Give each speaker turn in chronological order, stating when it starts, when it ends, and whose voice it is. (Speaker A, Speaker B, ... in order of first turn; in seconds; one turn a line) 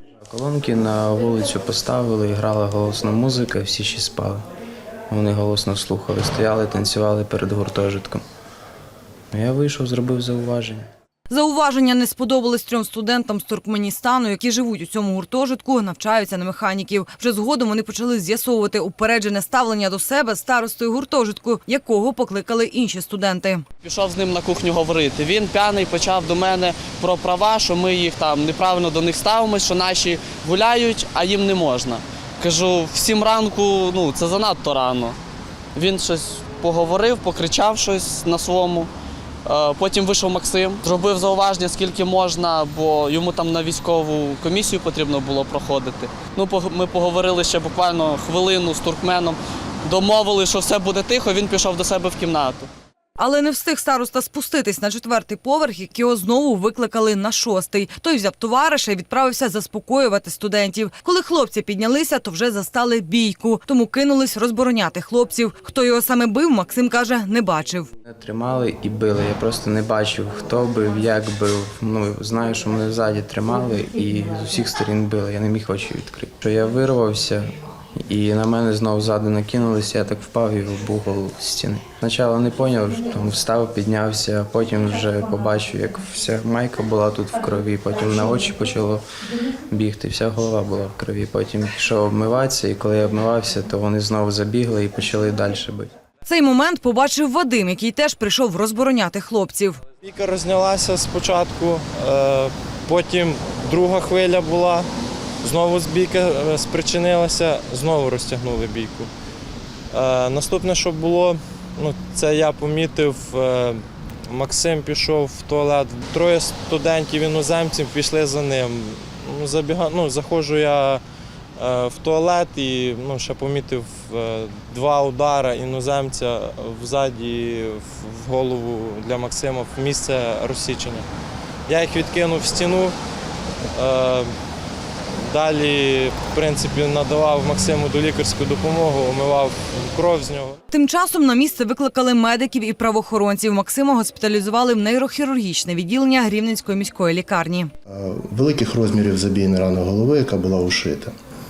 Speaker A: 0.3-4.5
Speaker A: 5.1-8.2
Speaker A: 9.3-10.9
Speaker B: 11.3-23.6
Speaker C: 23.8-35.2
Speaker C: 35.8-38.9
Speaker C: 39.5-52.7
Speaker B: 53.2-67.9
Speaker A: 68.1-77.5
Speaker A: 78.1-89.0
Speaker A: 89.7-95.9
Speaker B: 96.2-99.8
Speaker D: 100.0-104.9
Speaker D: 105.4-109.1
Speaker D: 109.9-121.0
Speaker D: 121.6-131.0
Speaker D: 131.7-132.9
Speaker D: 133.8-134.3
Speaker D: 135.2-140.6
Speaker B: 140.7-147.7
Speaker E: 147.9-151.1